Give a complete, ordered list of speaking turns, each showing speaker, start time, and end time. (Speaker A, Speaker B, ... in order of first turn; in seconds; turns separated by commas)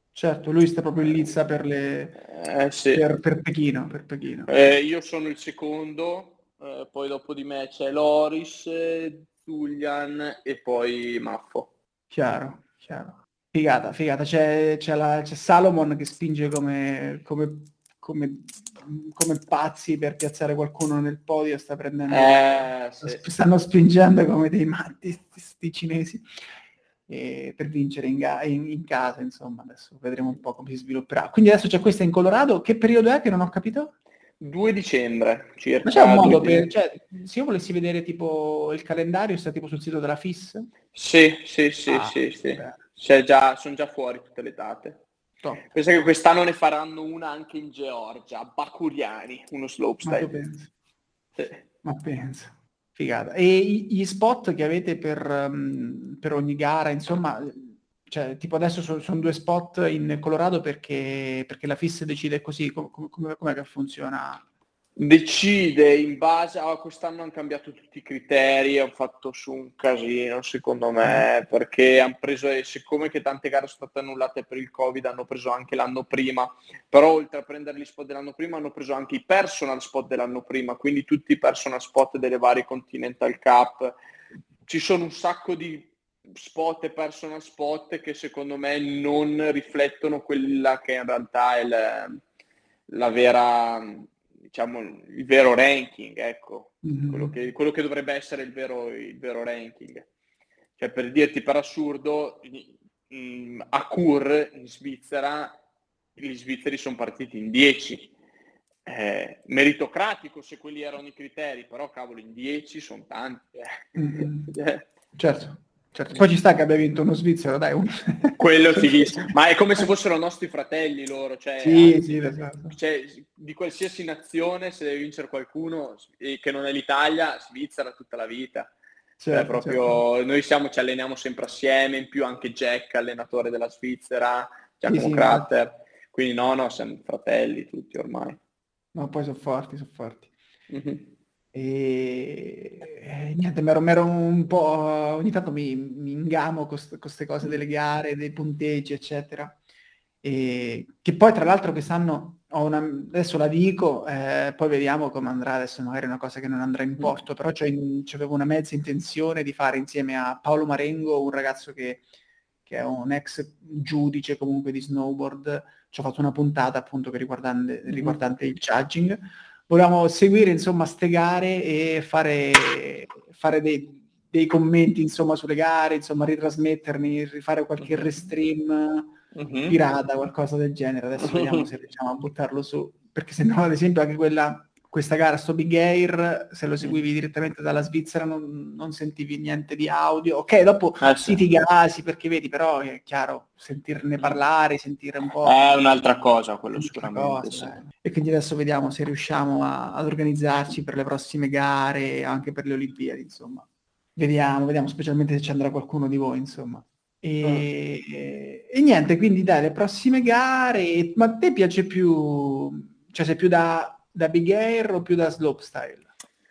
Speaker A: 0.1-2.2, Speaker B: 2.2-3.0, Speaker A: 2.9-4.5, Speaker B: 4.5-11.7, Speaker A: 12.1-26.3, Speaker B: 22.1-23.2, Speaker A: 27.1-33.9, Speaker B: 34.4-36.7, Speaker A: 35.8-40.7, Speaker B: 40.9-45.0, Speaker A: 41.9-42.8, Speaker B: 45.7-50.3, Speaker A: 50.0-50.7, Speaker B: 51.4-51.6, Speaker A: 51.8-64.4, Speaker B: 65.0-83.9, Speaker B: 84.7-92.2, Speaker B: 92.9-100.1, Speaker A: 96.8-97.3, Speaker B: 100.8-105.6, Speaker B: 106.2-108.1, Speaker B: 108.8-114.9, Speaker A: 114.0-114.5, Speaker A: 115.2-119.8, Speaker B: 118.4-128.7, Speaker A: 121.6-122.8, Speaker A: 129.2-130.0, Speaker B: 129.3-138.4, Speaker A: 134.8-135.5, Speaker A: 138.9-140.3, Speaker B: 140.7-141.1, Speaker A: 141.5-149.6, Speaker A: 150.2-162.0, Speaker A: 162.7-179.1, Speaker B: 167.9-168.2, Speaker B: 177.8-178.2, Speaker B: 179.3-179.8, Speaker A: 179.7-195.6, Speaker B: 181.2-181.7, Speaker B: 191.0-191.4, Speaker B: 195.4-197.8, Speaker A: 196.7-216.1